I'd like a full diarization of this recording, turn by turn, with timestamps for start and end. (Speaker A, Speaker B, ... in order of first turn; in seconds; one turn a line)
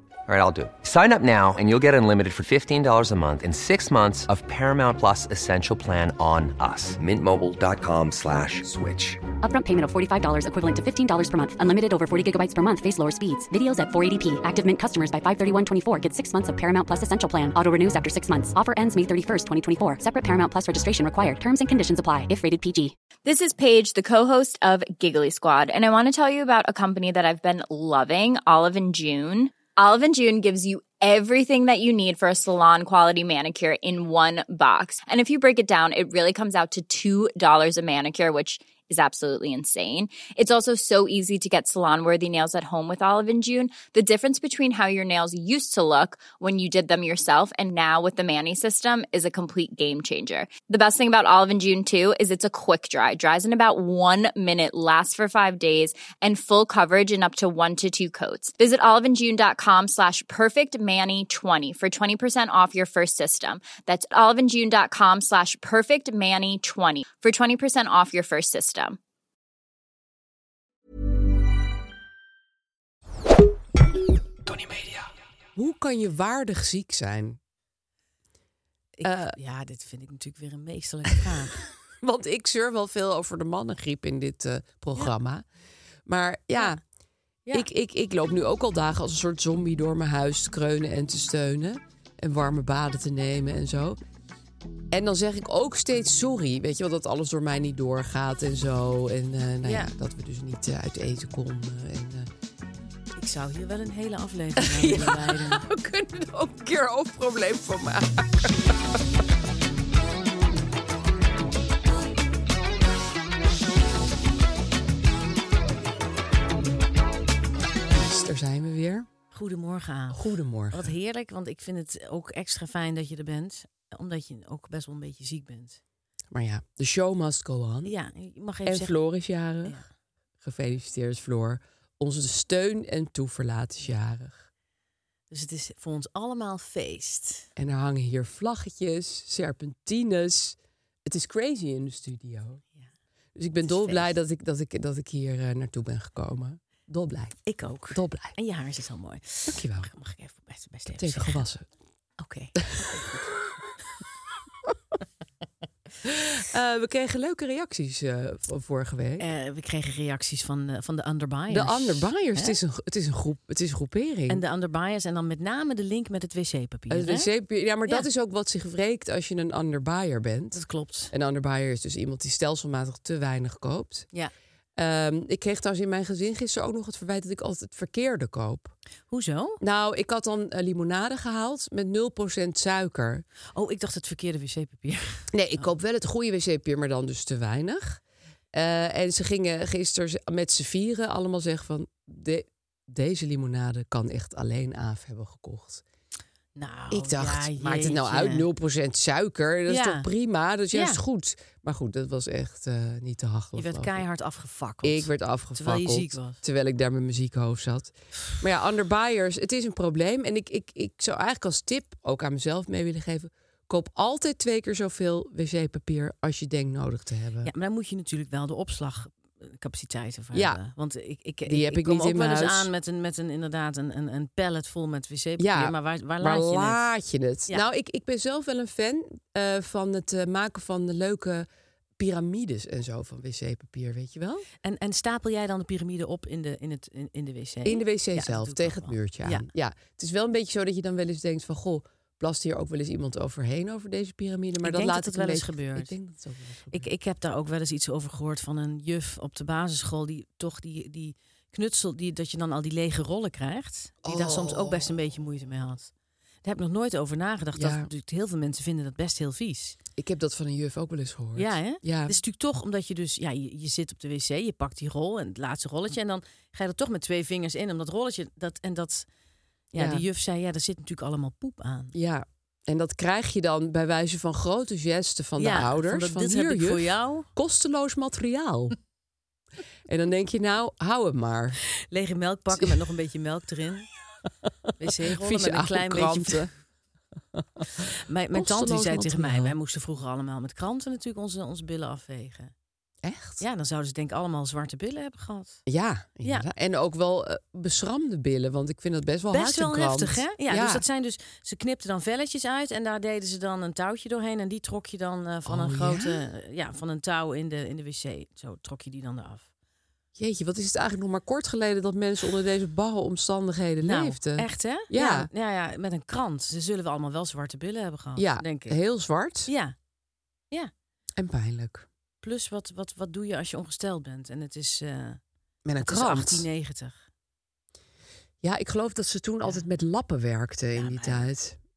Speaker A: 0.3-9.3
Speaker B: 9.4-22.9
Speaker C: 23.2-69.0
Speaker D: 75.5-77.4
Speaker E: 79.0-81.6
Speaker D: 79.0-79.3
Speaker D: 82.0-85.5
Speaker D: 86.1-86.8
Speaker D: 87.5-94.0
Speaker D: 94.9-102.3
Speaker E: 99.6-99.9
Speaker E: 103.2-105.7
Speaker D: 104.6-108.6
Speaker D: 117.9-119.1
Speaker E: 119.3-125.8
Speaker D: 120.1-120.9
Speaker D: 126.3-127.9
Speaker E: 127.8-128.9
Speaker D: 128.7-129.8
Speaker D: 130.4-134.5
Speaker E: 135.3-137.5
Speaker D: 137.6-142.6
Speaker D: 143.4-148.4
Speaker E: 143.7-144.1
Speaker E: 147.5-151.4
Speaker D: 149.5-149.9
Speaker D: 150.9-151.7
Speaker E: 152.2-153.2
Speaker D: 152.8-153.2
Speaker D: 156.0-159.2
Speaker E: 159.2-162.6
Speaker D: 161.5-164.4
Speaker E: 164.3-167.3
Speaker D: 166.9-174.1
Speaker E: 170.5-171.1
Speaker D: 174.8-178.7
Speaker E: 179.1-179.6
Speaker D: 179.6-183.2
Speaker E: 183.6-185.7
Speaker D: 185.3-188.0
Speaker D: 188.5-195.8
Speaker E: 196.6-198.5
Speaker D: 196.9-204.0
Speaker E: 199.7-200.1
Speaker E: 200.7-201.0
Speaker E: 203.6-206.4
Speaker D: 204.8-217.5
Speaker E: 217.4-226.8
Speaker D: 220.3-220.6
Speaker D: 221.5-222.7
Speaker D: 225.4-231.5
Speaker D: 232.0-234.5
Speaker E: 234.6-239.5
Speaker D: 237.6-246.9
Speaker E: 244.6-245.9
Speaker E: 246.7-255.9
Speaker D: 254.0-254.9
Speaker E: 256.4-259.8
Speaker D: 257.5-257.9
Speaker D: 260.0-262.1
Speaker E: 261.4-269.1
Speaker E: 269.7-271.9
Speaker D: 269.8-270.0
Speaker D: 271.9-278.8
Speaker E: 275.4-277.3
Speaker D: 279.9-281.6
Speaker E: 281.9-283.9
Speaker E: 284.8-286.5
Speaker D: 285.1-286.5
Speaker D: 287.4-287.8
Speaker E: 288.1-292.5
Speaker D: 288.3-289.6
Speaker D: 293.0-293.4
Speaker E: 293.4-295.6
Speaker D: 295.7-300.8
Speaker E: 296.2-296.5
Speaker E: 299.3-309.5
Speaker D: 305.5-306.2
Speaker D: 310.2-315.3
Speaker E: 313.8-318.8
Speaker D: 318.2-319.5
Speaker E: 319.5-319.7
Speaker D: 321.2-321.9
Speaker E: 322.2-325.2
Speaker D: 325.6-326.5
Speaker E: 325.8-327.1
Speaker D: 328.4-331.6
Speaker E: 330.8-331.3